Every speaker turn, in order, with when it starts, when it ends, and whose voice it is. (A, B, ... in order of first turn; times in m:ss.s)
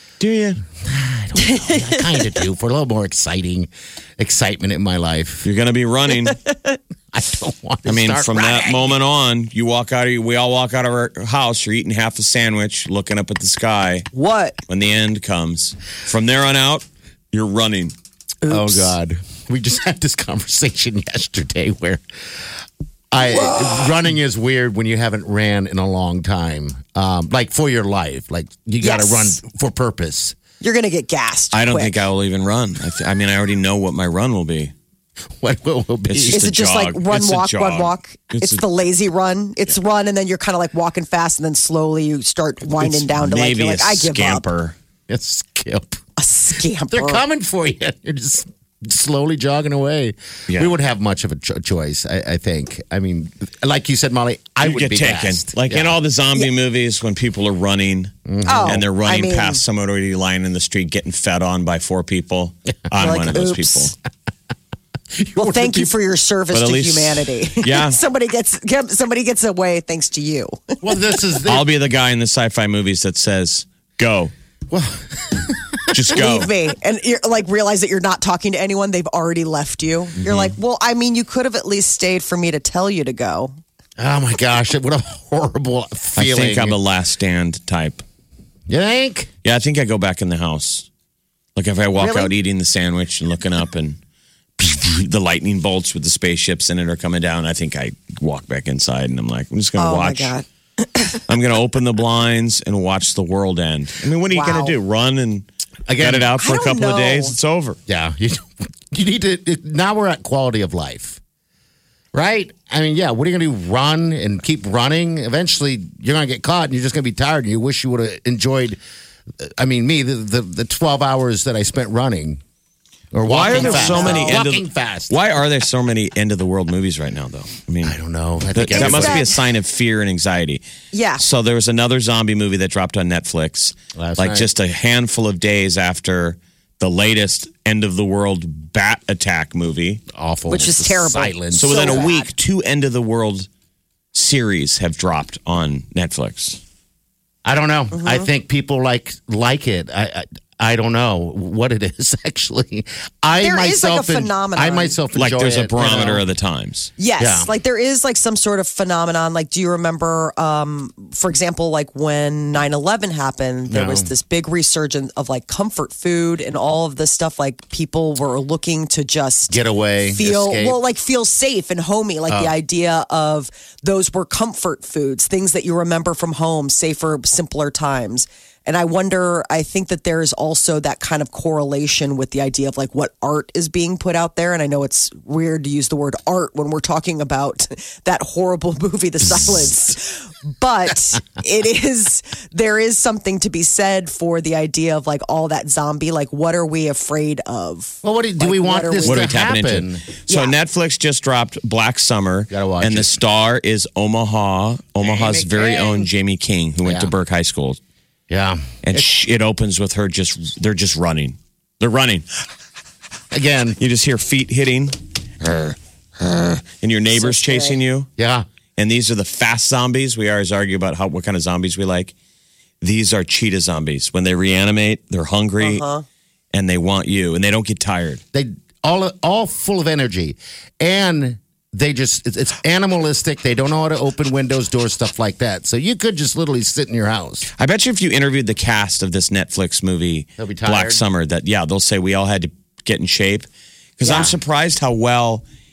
0:00.2-0:00.6 A
0:00.8-0:05.5 B
0:01.4-0:02.0 C
0:05.4-0:06.4 A
0:06.3-0:06.8 C
0:07.1-0:08.7 B
0:07.9-0:14.1 A
0:14.1-0:14.6 C
0:14.7-0:17.9 A
0:18.4-0:18.9 C
0:18.5-0:22.5 B
0:23.1-0:30.4 B
0:23.2-0:23.9 C
0:28.8-0:29.4 C
0:30.6-0:32.0 C
0:31.5-0:34.7 A
0:35.4-0:36.4 B
0:36.1-0:38.6 A
0:36.3-0:44.5 C
0:42.8-0:44.8 A
0:45.1-0:46.0 B
0:46.2-0:47.2 C
0:46.9-0:56.0 B
0:50.5-0:50.7 A
0:54.6-1:03.9 A
0:58.3-0:58.8 B
0:58.4-0:59.6 C
1:03.0-1:03.9 C
1:05.2-1:05.9 B
1:05.4-1:11.2 C
1:06.5-1:08.0 A
1:10.8-1:11.7 B
1:11.5-1:14.3 A
1:14.7-1:16.0 B
1:15.9-1:16.5 A
1:16.1-1:23.5 C
1:20.2-1:20.5 A
1:24.0-1:26.8 B
1:26.2-1:28.0 A
1:28.7-1:29.3 B
1:29.4-1:30.9 A
1:31.6-1:34.0 A
1:32.0-1:32.3 C
1:34.6-1:40.3 A
1:39.8-1:41.2 C
1:41.3-1:45.5 A
1:44.3-1:44.8 C
1:45.9-1:46.4 B
1:46.0-1:47.8 A
1:46.4-1:47.4 C
1:47.9-1:51.2 B
1:52.1-1:58.8 B
1:59.4-2:02.4 B
2:03.1-2:05.2 B
2:03.2-2:08.0 A
2:03.4-2:04.4 C
2:07.8-2:09.2 B
2:08.5-2:10.6 A
2:08.7-2:09.4 C
2:10.9-2:11.2 C
2:11.2-2:20.0 A
2:14.0-2:14.5 B
2:20.1-2:22.1 B
2:20.5-2:22.3 C
2:21.5-2:23.5 A
2:24.1-2:26.6 A
2:27.4-2:36.2 B
2:27.9-2:28.3 C
2:33.4-2:35.0 C
2:35.2-2:36.9 A
2:37.0-3:19.3 C
2:37.2-2:37.5 B
2:43.7-2:44.1 B
2:49.5-2:50.8 B
3:18.0-3:20.0 B
3:19.0-3:27.8 A
3:20.3-3:20.6 C
3:22.5-3:23.2 B
3:25.0-3:26.1 B
3:26.8-3:27.1 B
3:28.3-3:29.1 B
3:28.8-3:32.3 A
3:33.3-3:33.8 B
3:33.8-3:38.1 A
3:37.2-3:37.8 C
3:38.2-3:38.5 B
3:38.8-3:42.1 A
3:42.8-3:45.8 A
3:45.6-3:46.0 C
3:46.5-3:48.2 A
3:48.3-3:57.5 B
3:57.6-4:03.5 A
4:00.4-4:01.0 B
4:04.0-4:05.4 A
4:04.0-4:04.3 C